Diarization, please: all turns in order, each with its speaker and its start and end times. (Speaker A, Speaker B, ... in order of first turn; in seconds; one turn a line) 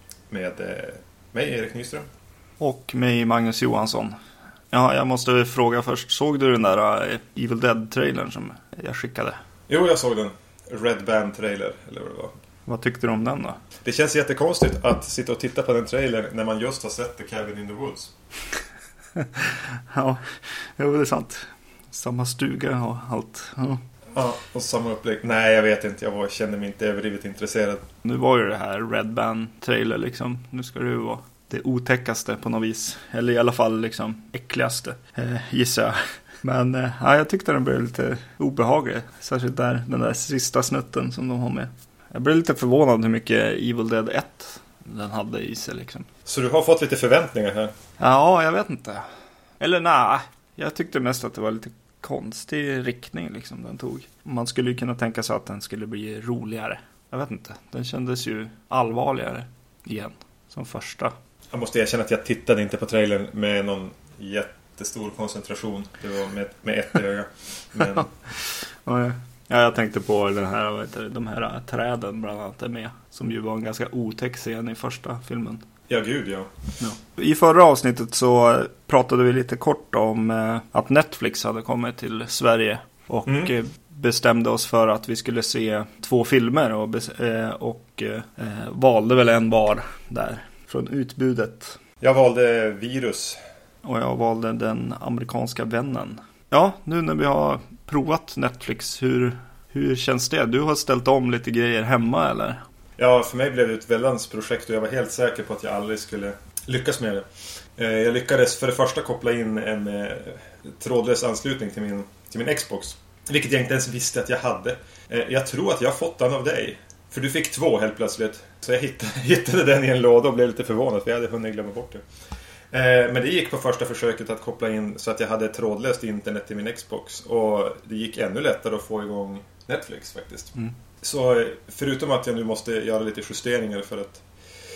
Speaker A: 0.3-2.1
Speaker B: 2.6-4.2
Speaker B: 4.7-9.4
Speaker A: 9.7-12.3
Speaker B: 12.7-13.6
Speaker A: 13.8-18.1
Speaker B: 19.2-23.8
Speaker A: 24.1-27.9
Speaker B: 28.0-46.1
Speaker A: 46.3-47.7
Speaker B: 48.0-49.1
Speaker B: 49.6-61.1
Speaker A: 61.5-68.1
Speaker B: 68.0-75.7
Speaker A: 75.9-76.5
Speaker B: 76.8-91.8
Speaker A: 83.3-83.5
Speaker A: 92.0-93.4
Speaker B: 93.8-102.6
Speaker A: 103.0-107.3
Speaker A: 107.8-122.0
Speaker A: 122.7-134.2